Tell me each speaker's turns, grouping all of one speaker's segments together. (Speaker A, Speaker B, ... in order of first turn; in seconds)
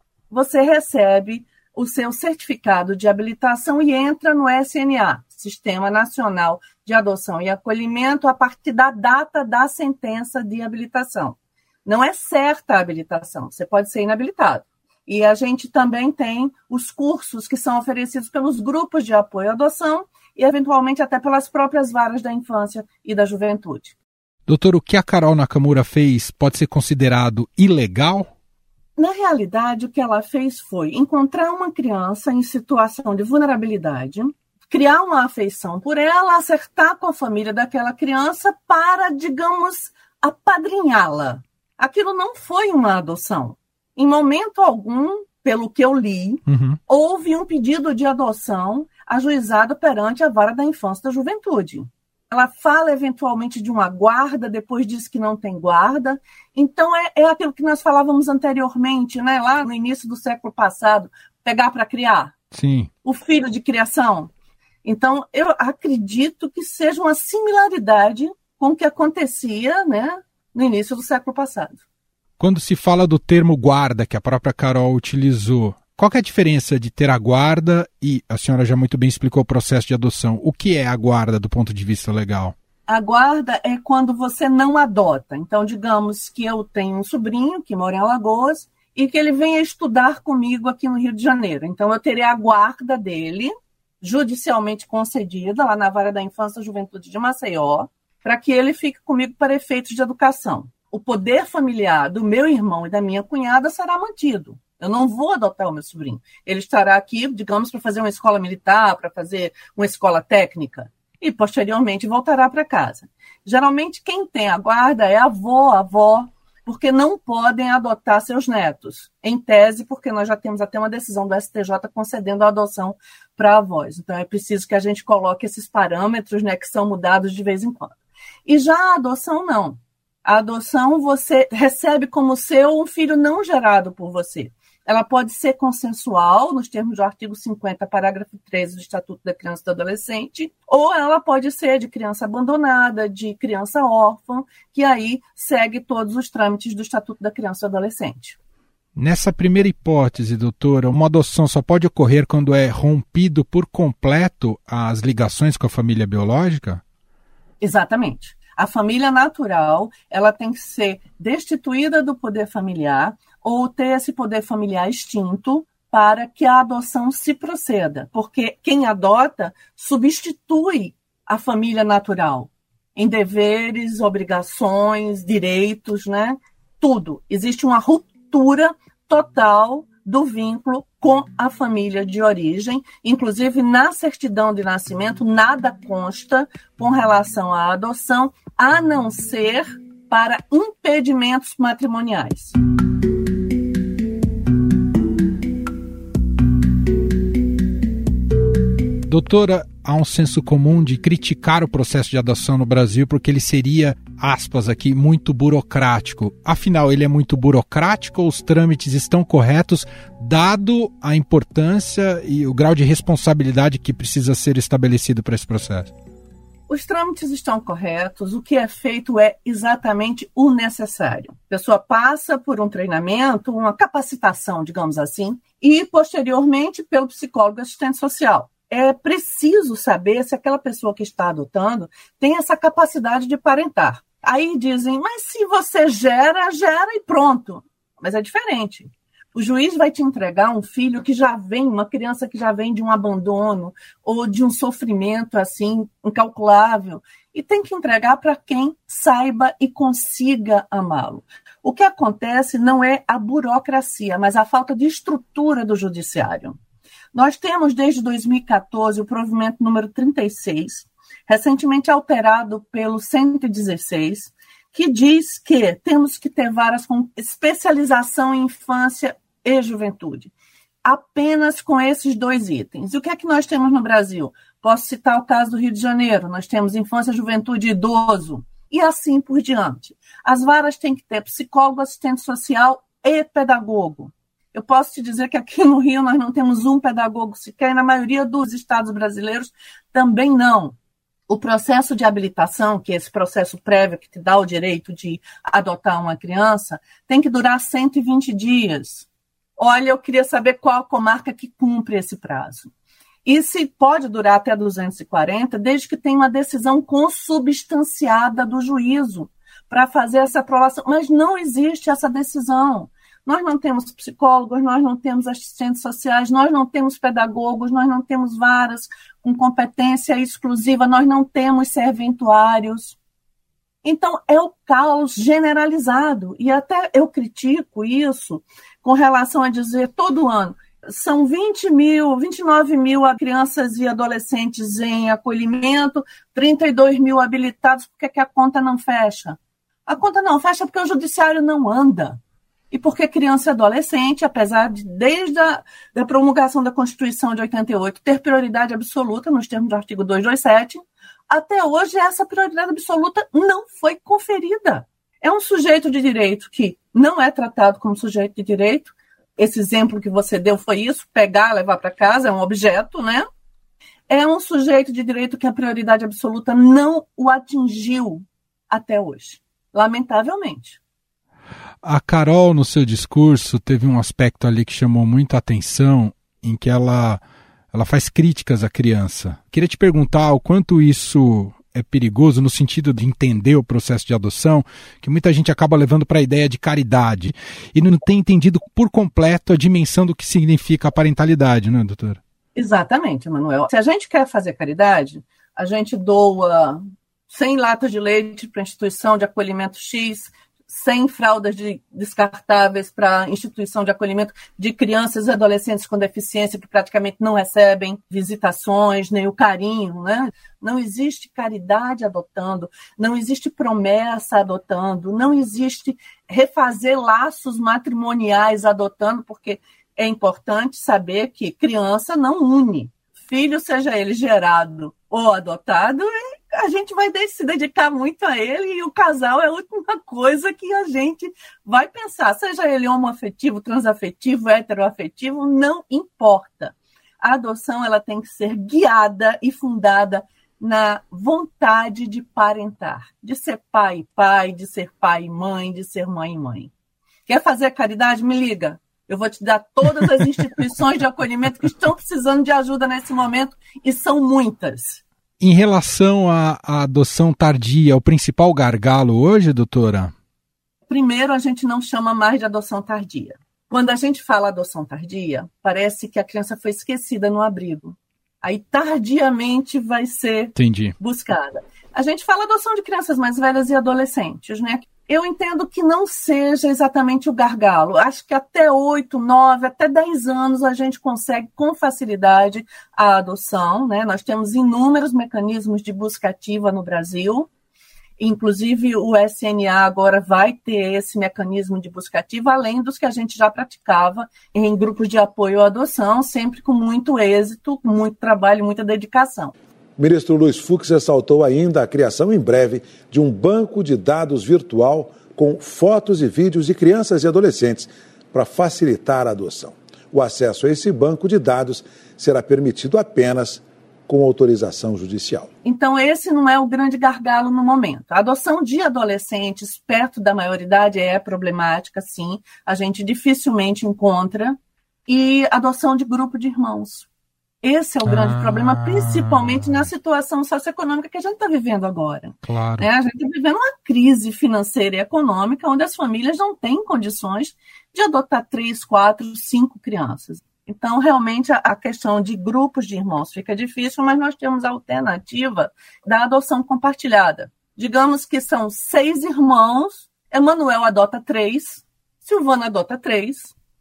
Speaker A: 0.3-23.9, 29.0-62.4, 63.0-64.3, 64.8-71.8, 82.9-128.0, 128.5-148.4, 157.6-192.6, 216.7-256.6, 257.1-270.3, 270.8-290.8, 291.3-302.7, 303.2-323.0, 323.8-342.2, 342.7-363.2, 364.1-370.8, 392.6-446.7, 447.3-455.0, 460.9-487.5, 488.2-499.5, 515.6-527.1, 527.6-553.5
Speaker B: 24.5-28.3, 46.5-46.8, 62.5-62.9, 72.4-82.5, 149.0-156.8, 199.1-215.9, 371.8-377.2, 377.7-392.2, 455.4-460.1, 470.6-470.9, 528.0-529.9, 532.4-532.9
Speaker C: 500.0-515.5